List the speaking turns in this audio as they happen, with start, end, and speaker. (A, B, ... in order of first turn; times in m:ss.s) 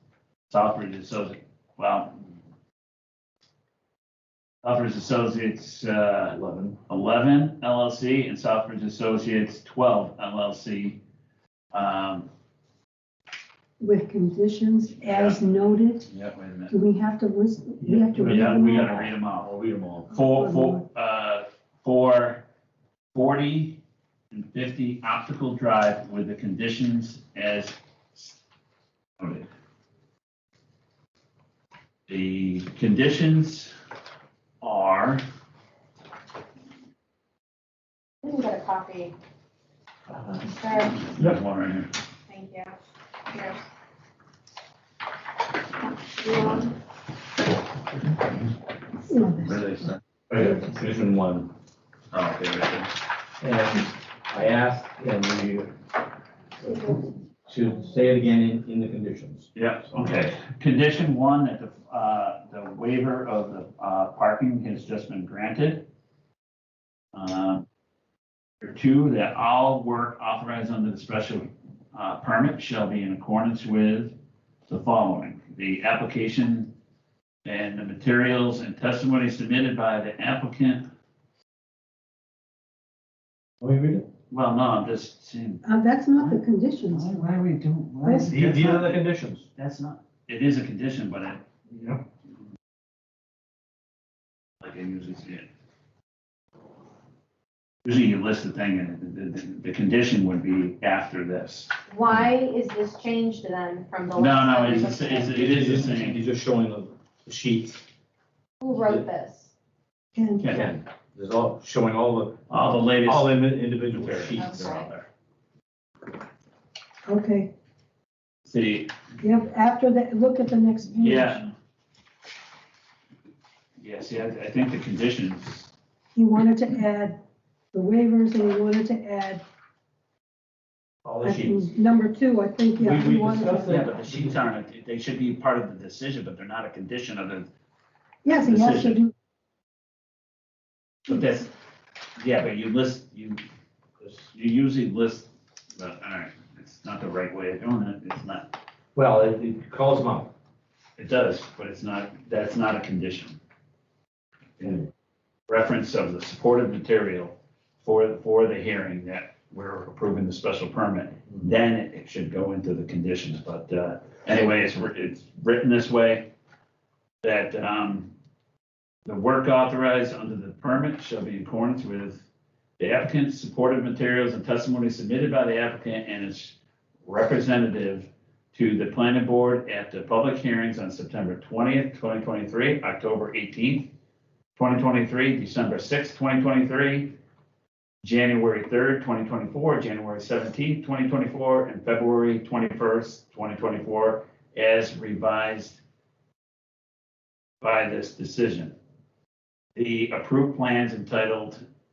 0:00.5-0:02.1 A
0:04.6-0:06.4 A
0:06.3-0:06.8 B
0:06.9-0:11.0 A
0:11.7-0:12.3 A
0:13.8-0:16.1 C
0:15.0-0:15.4 A
0:16.0-0:16.7 A
0:16.7-0:19.1 C
0:17.8-0:20.1 B
0:18.1-0:19.5 A
0:20.1-0:20.8 C
0:20.1-0:22.4 A
0:23.1-0:23.8 A
0:24.3-0:28.3 A
0:29.2-0:29.5 A
0:32.1-0:33.7 A
0:34.6-0:35.2 A
0:38.2-0:39.1 D
0:40.4-0:41.0 D
0:41.1-0:41.9 A
0:42.3-0:42.8 D
0:43.3-0:43.6 D
0:46.2-0:46.7 D
0:49.1-0:49.5 C
0:49.4-0:50.0 A
0:50.3-0:51.5 B
0:52.1-0:52.9 A
0:53.4-0:55.7 B
0:56.7-0:56.9 B
0:57.5-1:00.2 B
0:59.5-1:05.9 A
1:07.1-1:07.6 A
1:08.6-1:14.1 A
1:14.7-1:16.7 A
1:17.4-1:20.8 A
1:23.6-1:24.0 B
1:24.3-1:25.6 A
1:25.6-1:27.3 C
1:26.1-1:29.0 A
1:28.0-1:28.3 C
1:28.3-1:29.4 B
1:29.6-1:31.5 A
1:31.7-1:32.0 B
1:34.6-1:35.5 A
1:37.8-1:42.3 A
1:41.9-1:45.4 D
1:44.2-1:46.2 A
1:44.7-1:47.8 B
1:48.6-1:49.5 D
1:48.7-1:49.0 B
1:50.1-1:50.4 C
1:50.4-1:50.7 A
1:50.5-1:54.9 B
1:52.5-1:55.0 A
1:54.3-1:54.9 D
1:57.0-1:57.5 C
1:58.4-1:59.0 A
1:59.2-2:01.5 C
2:01.0-2:01.4 A
2:03.8-2:05.7 A
2:06.1-2:07.2 C
2:07.7-2:09.4 C
2:11.0-2:11.7 B
2:11.2-2:13.8 C
2:12.8-2:14.4 B
2:13.6-2:17.5 A
2:18.2-2:19.1 C
2:18.4-2:19.0 A
2:21.0-2:21.5 A
2:22.2-2:23.4 A
2:24.0-2:28.5 A
2:28.9-2:30.3 B
2:31.0-2:33.4 A
2:34.6-2:34.9 A
2:35.5-2:46.3 A
2:47.2-2:48.1 A
2:49.0-2:52.2 A
2:52.8-3:03.9 A
3:04.5-3:07.1 A
3:08.0-3:15.8 A
3:17.6-3:18.7 A
3:19.8-3:21.6 A